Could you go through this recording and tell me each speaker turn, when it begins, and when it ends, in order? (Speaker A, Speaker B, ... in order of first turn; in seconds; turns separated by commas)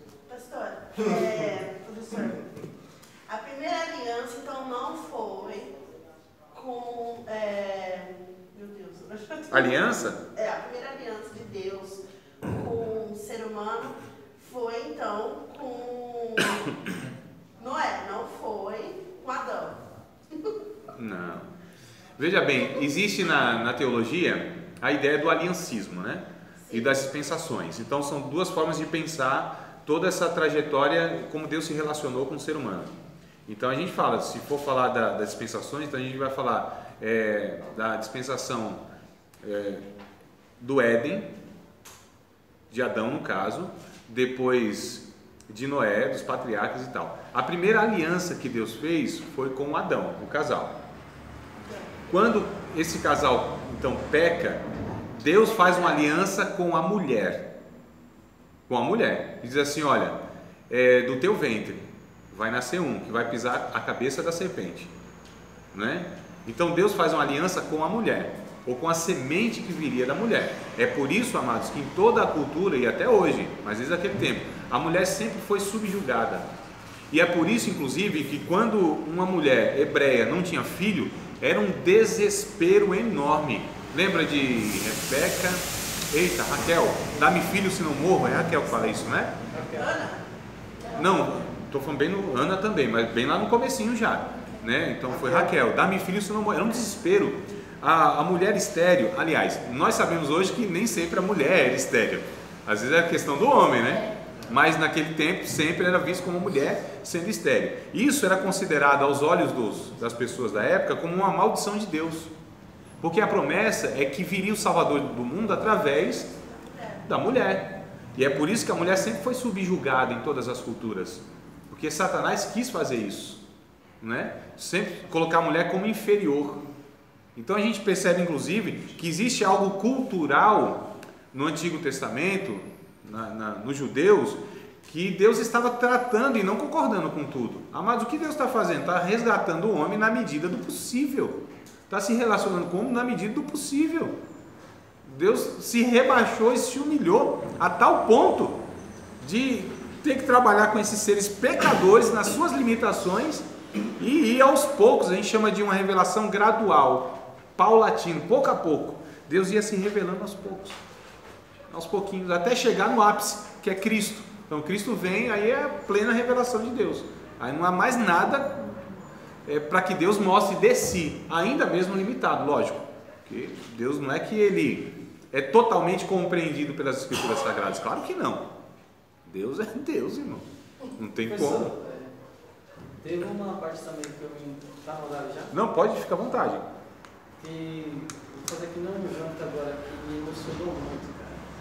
Speaker A: 0.3-2.5, Speaker A: 3.3-5.7, Speaker A: 6.5-16.8, Speaker B: 9.5-10.2, Speaker A: 17.6-19.8, Speaker B: 20.9-21.5, Speaker B: 22.2-32.9, Speaker A: 26.6-27.0, Speaker B: 33.5-38.8, Speaker B: 39.4-39.8, Speaker B: 40.6-41.3, Speaker B: 42.7-50.8, Speaker A: 51.6-51.9, Speaker B: 52.1-54.6, Speaker B: 55.2-57.5, Speaker B: 58.7-60.2, Speaker B: 60.7-64.9, Speaker B: 65.7-76.5, Speaker B: 77.1-89.3, Speaker C: 89.5-89.9, Speaker A: 89.7-90.2, Speaker B: 90.9-112.3, Speaker C: 95.1-95.5, Speaker B: 113.0-116.3, Speaker A: 116.3-117.0, Speaker B: 117.0-123.4, Speaker B: 124.0-126.6, Speaker B: 127.3-144.2, Speaker B: 145.0-148.6, Speaker B: 149.2-153.4, Speaker B: 154.0-160.8, Speaker B: 161.7-168.9, Speaker B: 169.4-178.5, Speaker B: 179.2-180.4, Speaker B: 181.0-181.7, Speaker C: 181.2-182.1, Speaker C: 183.0-185.5, Speaker B: 185.5-186.6, Speaker C: 187.4-191.4